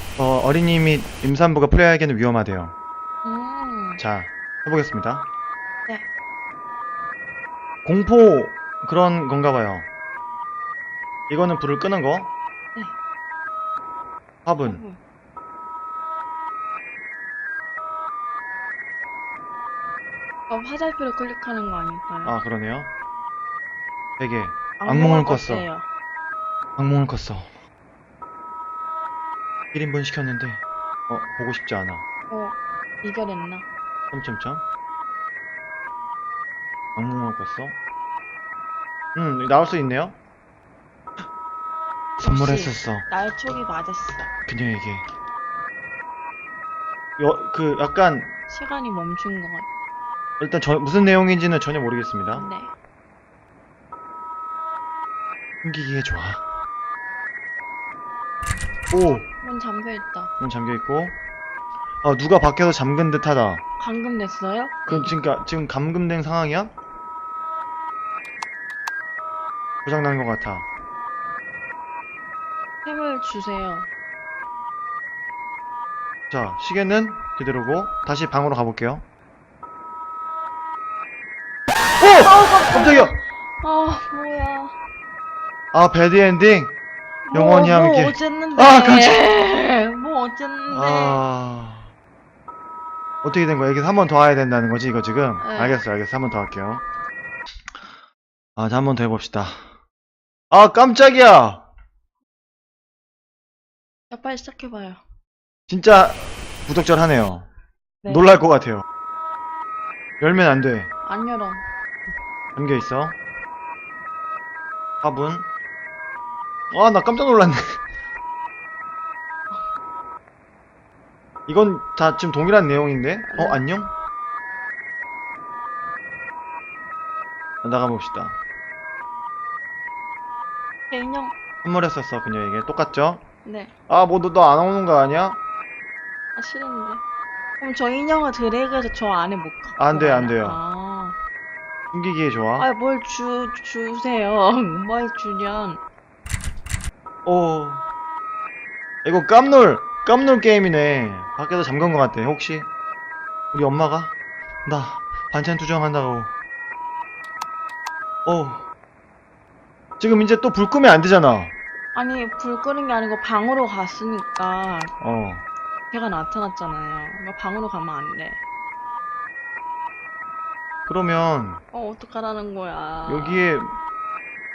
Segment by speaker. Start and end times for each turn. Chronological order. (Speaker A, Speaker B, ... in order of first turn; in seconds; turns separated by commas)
Speaker A: 0.2-2.8, Speaker B: 3.2-4.0, Speaker A: 4.0-5.2, Speaker A: 7.8-9.9, Speaker A: 11.3-12.3, Speaker A: 14.4-14.8, Speaker B: 14.6-15.0, Speaker B: 20.5-22.4, Speaker A: 22.2-22.9, Speaker A: 24.2-25.7, Speaker B: 24.8-25.9, Speaker A: 26.8-27.4, Speaker A: 29.7-32.0, Speaker B: 32.3-33.7, Speaker A: 34.1-34.6, Speaker A: 37.0-37.8, Speaker A: 39.1-40.2, Speaker A: 42.2-43.1, Speaker B: 42.2-44.3, Speaker A: 44.5-45.0, Speaker A: 47.2-48.3, Speaker B: 48.5-49.7, Speaker A: 50.4-52.5, Speaker B: 52.3-52.7, Speaker A: 55.6-56.4, Speaker A: 58.9-59.3, Speaker B: 59.1-60.3, Speaker A: 60.4-61.2, Speaker A: 62.0-63.6, Speaker B: 63.8-65.2, Speaker A: 64.9-66.7, Speaker A: 69.8-70.7, Speaker B: 72.8-73.9, Speaker A: 76.3-79.0, Speaker A: 82.0-83.1, Speaker B: 82.2-84.8, Speaker A: 85.7-86.8, Speaker B: 87.3-91.2, Speaker A: 87.3-89.2, Speaker A: 90.7-91.9, Speaker A: 93.2-96.8, Speaker B: 95.4-95.8, Speaker A: 98.6-99.6, Speaker A: 100.5-101.7, Speaker B: 104.1-105.0, Speaker A: 105.7-107.5, Speaker B: 108.0-108.4, Speaker A: 108.1-108.8, Speaker A: 110.2-110.9, Speaker B: 111.0-111.7, Speaker A: 112.6-113.2, Speaker A: 115.0-115.5, Speaker A: 116.7-117.6, Speaker A: 121.5-123.9, Speaker B: 123.3-123.6, Speaker A: 127.6-128.4, Speaker B: 130.9-131.3, Speaker A: 131.6-133.2, Speaker B: 133.4-133.7, Speaker A: 133.9-135.4, Speaker B: 136.3-137.0, Speaker B: 137.6-141.2, Speaker A: 139.8-140.6, Speaker A: 141.9-142.7, Speaker B: 142.6-145.8, Speaker A: 147.3-147.8, Speaker A: 149.1-152.7, Speaker A: 153.5-154.1, Speaker A: 154.7-156.3, Speaker A: 158.3-158.7, Speaker A: 160.0-161.6, Speaker B: 161.9-164.9, Speaker A: 165.0-165.4, Speaker B: 165.9-168.4, Speaker A: 170.9-171.6, Speaker B: 171.7-173.5, Speaker A: 173.1-173.7